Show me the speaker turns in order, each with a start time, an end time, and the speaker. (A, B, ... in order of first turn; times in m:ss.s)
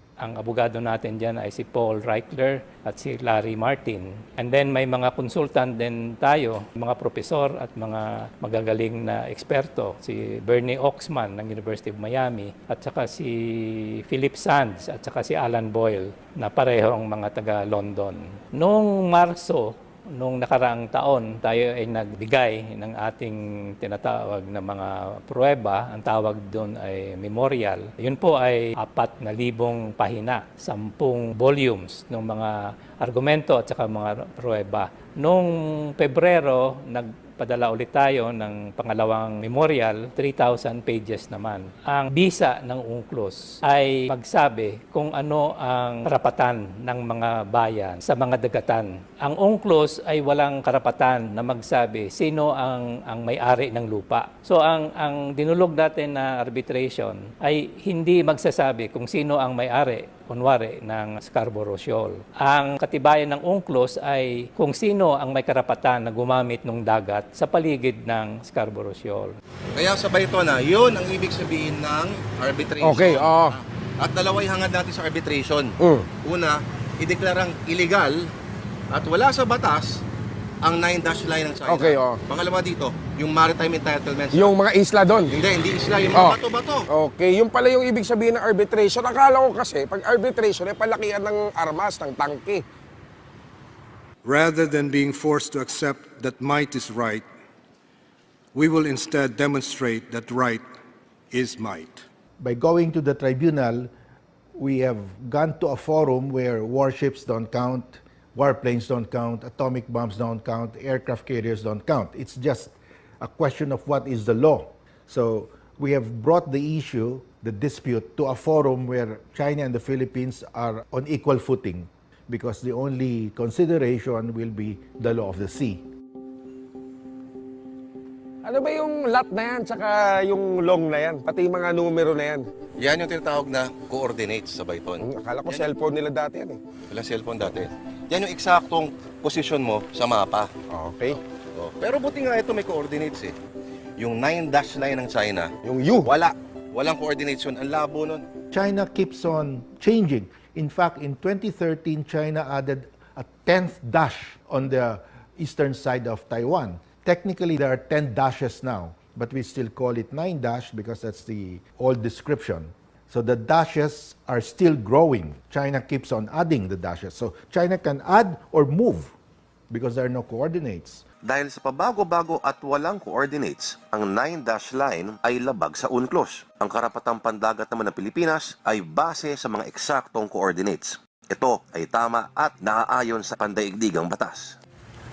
0:00.2-1:09.4 A
1:09.8-1:18.3 B
1:12.8-1:13.6 C
1:18.9-1:20.0 B
1:20.6-1:24.6 B
1:21.7-1:22.2 C
1:24.3-1:25.3 C
1:25.3-1:26.9 B
1:26.1-1:26.4 C
1:26.9-1:32.6 C
1:34.2-1:37.2 D
1:38.6-1:40.6 D
1:41.3-1:42.0 D
1:42.4-1:43.9 E
1:44.6-2:05.8 E
2:08.4-2:12.4 C
2:12.8-2:15.7 B
2:15.0-2:16.6 C
2:16.9-2:20.5 B
2:20.7-2:21.2 C
2:21.6-2:23.3 B
2:24.0-2:25.5 B
2:25.6-2:26.1 C
2:26.0-2:28.2 B
2:28.5-2:49.1 E
2:49.7-2:51.0 E
2:51.2-3:04.4 F